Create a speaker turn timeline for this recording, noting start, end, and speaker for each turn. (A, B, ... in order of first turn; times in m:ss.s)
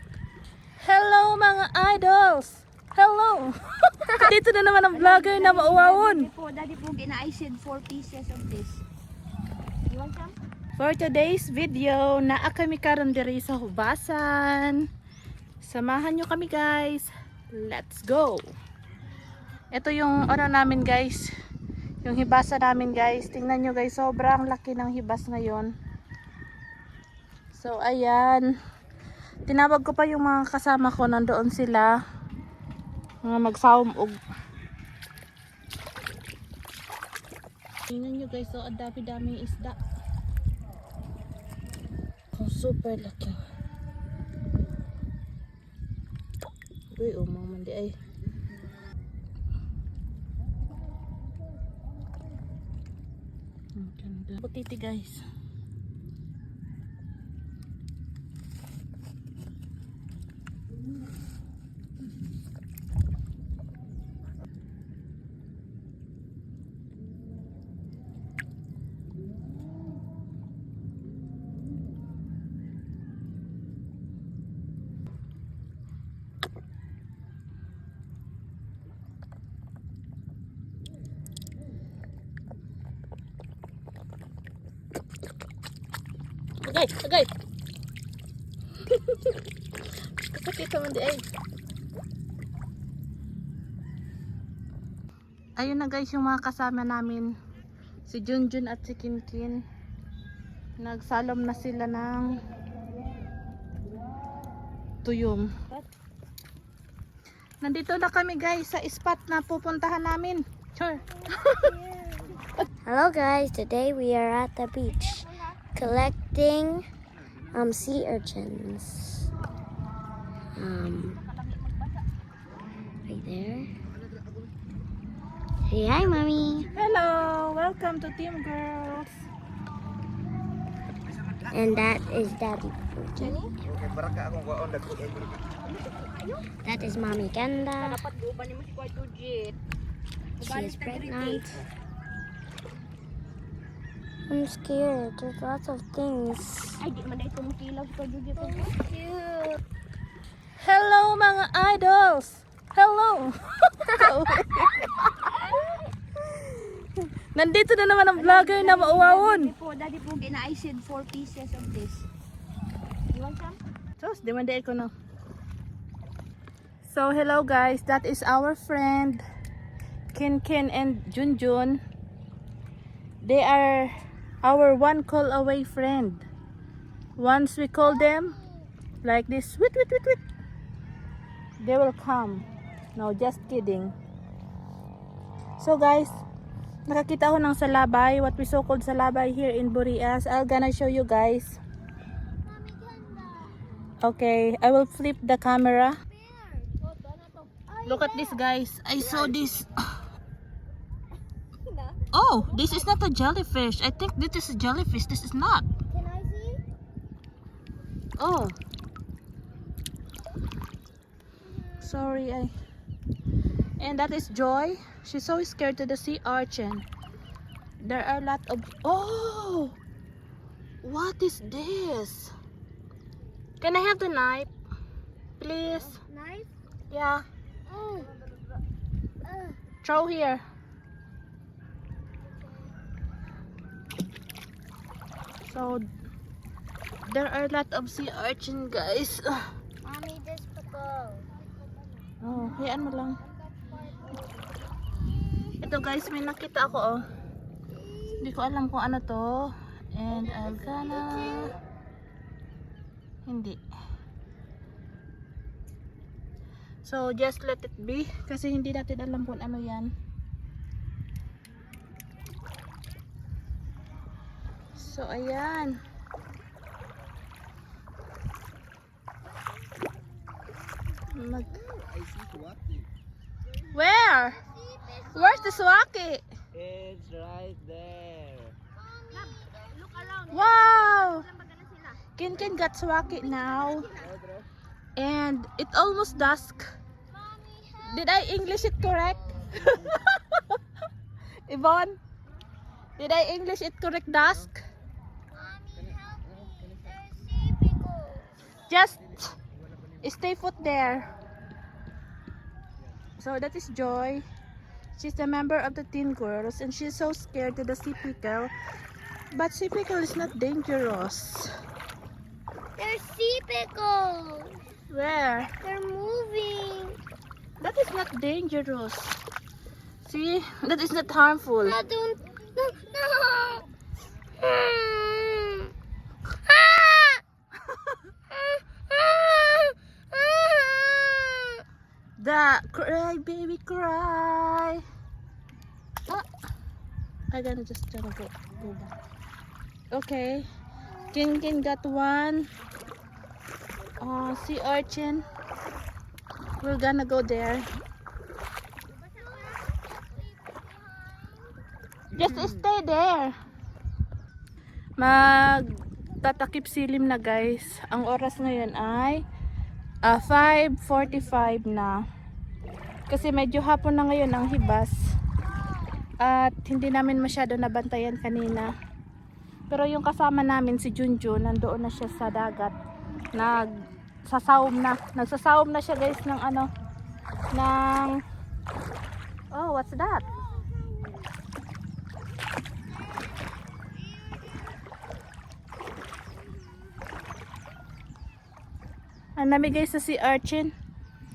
0:00.8-0:03.5 A
0:04.1-0:06.3 A
0:04.9-0:08.8 B
0:09.9-0:10.3 B
0:10.8-0:14.8 A
0:15.6-0:18.4 A
0:19.7-0:21.3 A
0:22.0-0:25.7 A
0:27.5-0:28.4 A
0:29.5-0:32.0 A
0:33.2-0:34.2 A
0:37.9-0:39.8 A
0:42.3-0:43.4 A
0:46.9-0:47.9 A
0:53.8-0:55.2 A
1:26.6-1:27.3 A
1:28.9-1:29.4 A
1:30.2-1:31.2 A
1:35.6-1:37.3 A
1:38.1-1:39.6 A
1:40.8-1:42.4 A
1:45.0-1:45.5 A
1:47.6-1:51.7 A
1:51.3-1:52.2 C
1:52.8-1:56.8 C
1:54.9-1:55.3 B
1:57.5-1:59.3 C
2:00.6-2:01.2 C
2:01.1-2:02.0 B
2:03.1-2:03.7 C
2:05.7-2:06.7 C
2:06.7-2:09.1 A
2:11.5-2:13.4 C
2:13.2-2:13.5 B
2:13.6-2:15.4 D
2:15.6-2:16.5 B
2:16.6-2:18.0 C
2:17.8-2:19.6 B
2:20.4-2:21.6 B
2:20.4-2:21.6 C
2:24.3-2:26.8 C
2:26.8-2:28.7 B
2:28.4-2:29.6 C
2:30.6-2:35.3 A
2:37.3-2:39.5 A
2:38.1-2:42.0 B
2:43.1-2:43.6 B
2:44.0-2:44.9 A
2:46.8-2:49.2 A
2:50.1-2:51.8 A
2:53.2-2:56.2 A
2:57.2-2:58.4 A
2:57.8-2:58.7 C
2:59.0-3:00.2 A
3:01.6-3:02.4 A
3:03.0-3:03.9 A
3:05.6-3:06.2 A
3:06.9-3:11.6 A
3:12.4-3:13.6 C
3:14.0-3:16.0 A
3:16.1-3:16.8 C
3:16.8-3:18.1 B
3:17.8-3:19.7 A
3:18.1-3:18.3 C
3:21.7-3:22.0 B
3:22.1-3:25.7 A
3:25.9-3:26.6 C
3:28.2-3:28.6 A
3:31.5-3:32.0 C
3:31.8-3:32.5 A
3:33.8-3:36.8 A
3:37.8-3:39.8 A
3:40.8-3:42.3 A
3:43.6-3:44.5 A
3:45.4-3:46.0 A
3:45.8-3:46.5 C
3:46.9-3:47.2 A
3:47.7-3:48.1 C
3:49.2-3:49.6 C
3:49.8-3:50.4 A
3:55.4-3:55.8 A
3:57.0-3:59.4 A
3:59.8-4:01.3 C
4:02.2-4:03.2 A
4:03.7-4:04.2 C
4:05.2-4:05.6 C
4:05.6-4:07.0 A
4:07.7-4:08.3 C
4:08.2-4:11.5 A
4:10.1-4:11.5 C
4:13.2-4:13.6 A
4:16.8-4:19.9 A
4:24.8-4:25.8 A
4:31.1-4:31.6 A
4:31.5-4:31.9 C
4:33.7-4:34.4 A
4:34.4-4:35.8 C
4:35.1-4:36.2 A
4:36.6-4:38.4 D
4:38.7-4:40.1 C
4:39.1-4:42.0 B
4:40.3-4:41.2 A
4:42.2-4:43.9 A
4:43.8-4:44.1 B
4:45.0-4:46.6 A
4:47.1-4:48.1 C
4:47.8-4:50.6 A
4:51.5-4:52.0 A
4:53.0-4:54.6 A
4:55.3-4:58.3 C
4:58.7-4:59.3 A
5:00.0-5:01.1 A
5:03.2-5:04.2 A
5:05.0-5:08.5 A
5:09.3-5:11.5 A
5:12.8-5:14.6 C
5:14.9-5:15.5 A
5:15.6-5:17.0 C
5:17.6-5:19.2 A
5:20.0-5:21.8 A
5:21.6-5:23.6 C
5:24.4-5:25.7 C
5:26.4-5:27.2 C
5:28.3-5:31.6 C
5:32.2-5:34.8 A
5:37.3-5:38.9 A
5:39.9-5:40.4 A
5:41.1-5:42.4 A
5:44.0-5:45.3 A
5:46.6-5:47.6 A
5:49.1-5:51.5 C
5:49.2-5:49.6 B
5:52.1-5:53.3 A
5:52.2-5:52.6 B
5:55.0-5:59.2 A
6:00.0-6:02.0 A
6:03.1-6:05.0 A
6:05.4-6:06.1 C
6:06.2-6:08.7 A
6:09.7-6:12.7 A
6:13.3-6:13.7 A
6:14.3-6:16.7 A
6:17.5-6:18.2 A
6:19.5-6:20.2 A
6:20.2-6:21.1 C
6:23.1-6:24.7 C
6:29.4-6:30.7 A